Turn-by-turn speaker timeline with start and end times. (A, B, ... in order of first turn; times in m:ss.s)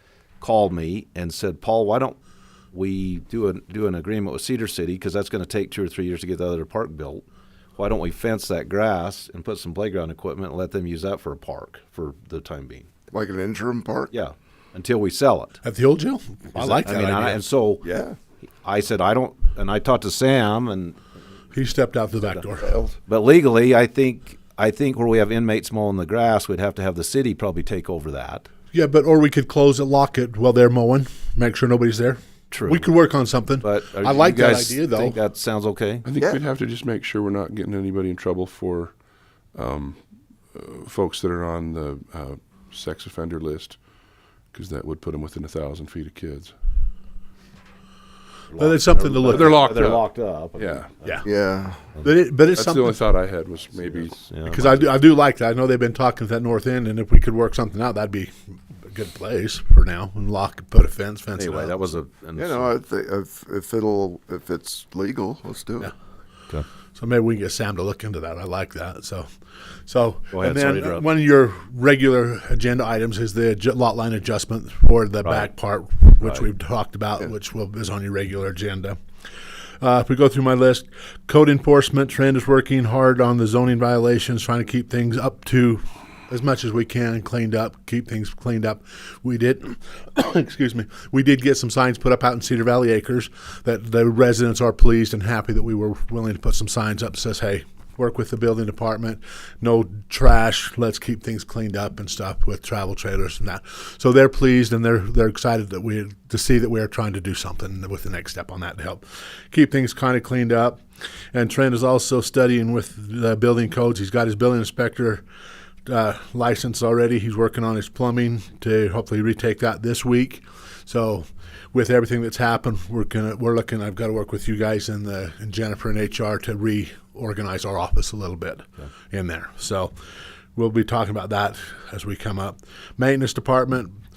0:00.4-0:02.2 A
0:02.7-0:07.2 A
0:07.8-0:12.9 A
0:13.1-0:14.1 B
0:14.1-0:15.6 A
0:15.6-0:17.4 C
0:16.6-0:17.8 A
0:17.8-0:18.2 B
0:18.6-0:21.0 A
0:21.5-0:22.7 C
0:22.2-0:22.5 A
0:22.6-0:22.9 B
0:23.1-0:28.5 A
0:28.7-0:35.2 C
0:32.5-0:33.0 A
0:33.6-0:36.1 A
0:36.0-0:46.6 D
0:48.5-0:52.1 A
0:48.6-0:49.7 C
0:49.3-0:50.9 D
0:51.0-0:51.3 C
0:51.2-0:51.8 B
0:52.0-0:53.0 C
0:52.5-0:54.3 D
0:54.1-0:54.9 A
0:54.5-0:58.3 C
0:58.9-1:01.8 C
1:01.3-1:02.7 A
1:02.4-1:05.9 B
1:06.9-1:09.2 C
1:09.9-1:19.0 C
1:10.3-1:11.1 A
1:15.2-1:15.5 A
1:16.2-1:16.5 A
1:19.8-1:50.8 C
1:51.3-1:55.2 C
1:55.9-2:09.9 C
2:10.6-2:13.9 C